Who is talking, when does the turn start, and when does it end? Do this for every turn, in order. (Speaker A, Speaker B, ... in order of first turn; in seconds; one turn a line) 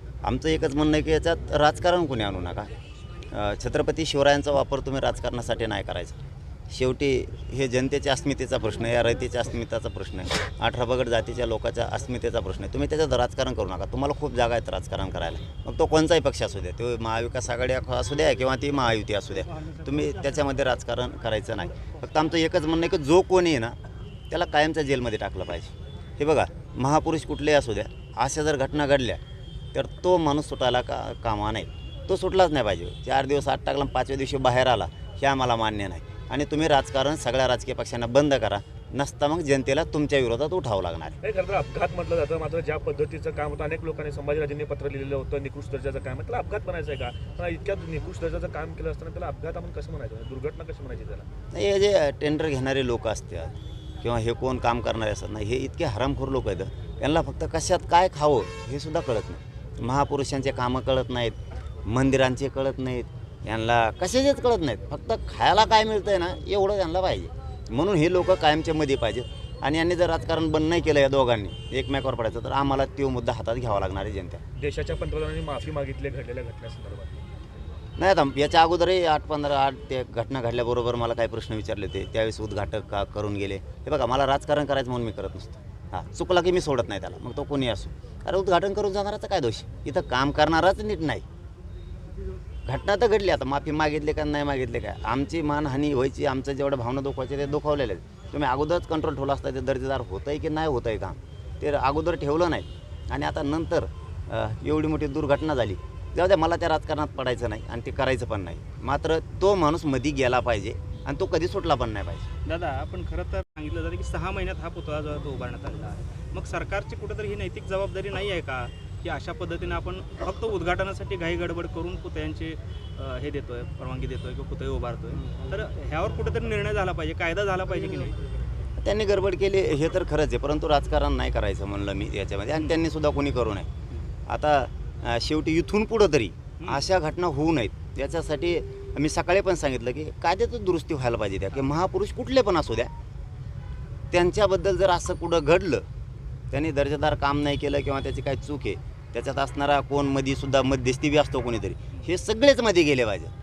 Speaker A: 0.2-2.7
Speaker A: 3.3-6.2
Speaker A: 6.7-23.8
Speaker A: 24.3-29.2
Speaker A: 29.7-41.1
Speaker B: 41.2-51.3
Speaker A: 51.5-74.4
Speaker B: 74.6-77.2
Speaker A: 78.0-91.2
Speaker A: 92.7-112.2
Speaker C: 112.4-128.2
Speaker A: 128.8-133.7
Speaker A: 134.3-142.9
Speaker A: 144.1-145.8
Speaker A: 146.5-153.3